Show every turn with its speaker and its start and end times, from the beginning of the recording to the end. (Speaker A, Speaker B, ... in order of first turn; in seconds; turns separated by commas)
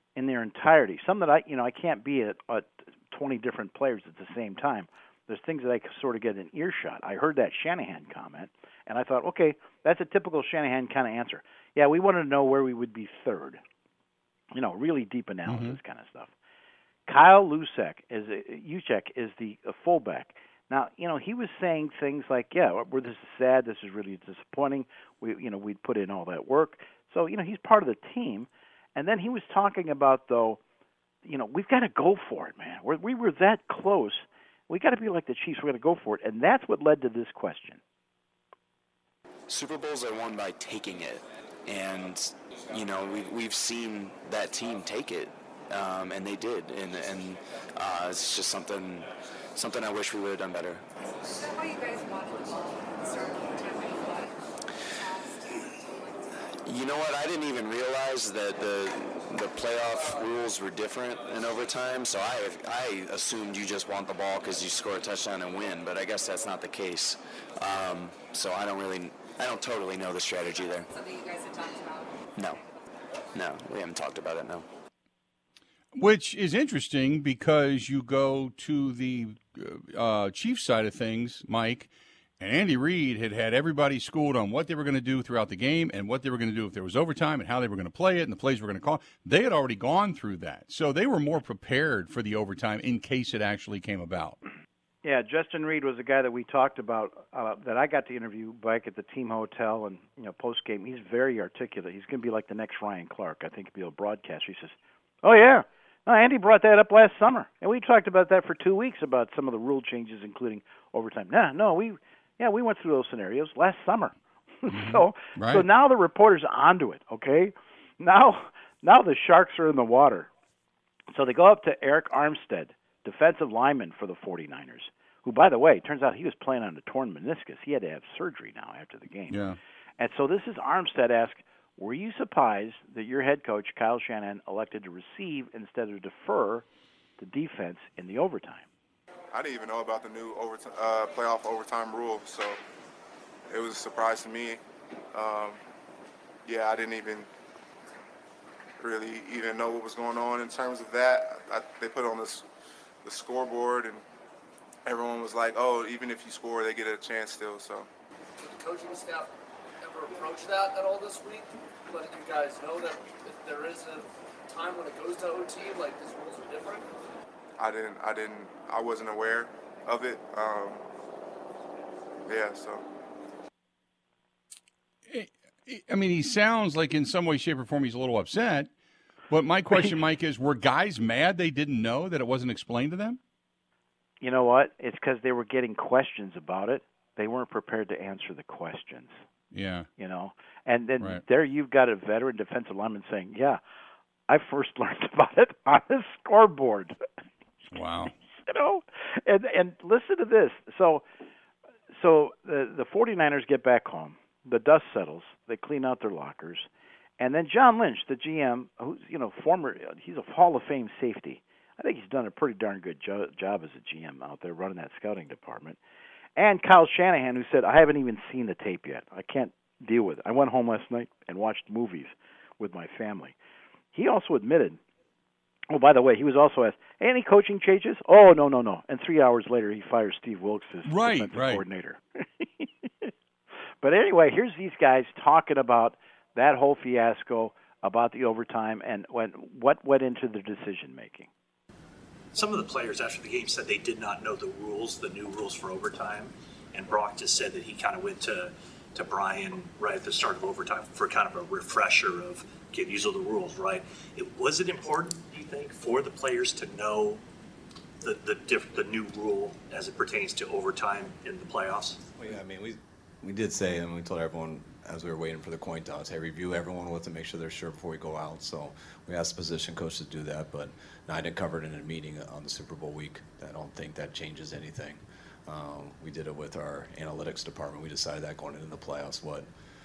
Speaker A: 0.2-13.6, Speaker A: 14.5-16.3, Speaker B: 15.5-15.8, Speaker A: 17.1-30.6, Speaker A: 31.2-37.8, Speaker C: 39.5-50.8, Speaker D: 51.2-54.4, Speaker D: 55.0-56.3, Speaker C: 56.6-70.9, Speaker D: 70.9-72.2, Speaker C: 73.3-74.7, Speaker B: 76.0-94.4, Speaker A: 95.0-120.3, Speaker B: 114.7-115.7, Speaker A: 121.1-129.4, Speaker B: 129.3-129.6, Speaker A: 130.0-136.7, Speaker A: 137.2-138.7, Speaker E: 139.3-142.6, Speaker E: 143.5-144.6, Speaker E: 145.1-145.6, Speaker E: 146.5-147.3, Speaker E: 148.8-152.5, Speaker E: 153.0-154.0, Speaker E: 154.9-157.9, Speaker F: 158.4-159.3, Speaker F: 159.8-166.8, Speaker E: 167.6-170.9, Speaker E: 172.3-172.8, Speaker B: 175.1-178.7, Speaker B: 179.3-183.2, Speaker A: 184.2-189.1, Speaker B: 189.5-189.9, Speaker A: 190.0-193.6, Speaker A: 194.3-197.0, Speaker B: 197.7-198.1, Speaker A: 198.5-201.0, Speaker A: 201.9-206.7, Speaker A: 207.2-215.8, Speaker A: 216.4-223.4, Speaker A: 223.9-224.8, Speaker A: 225.7-233.1, Speaker B: 230.9-231.6, Speaker A: 233.8-241.3, Speaker G: 242.3-257.2, Speaker G: 258.0-262.0, Speaker H: 262.2-279.5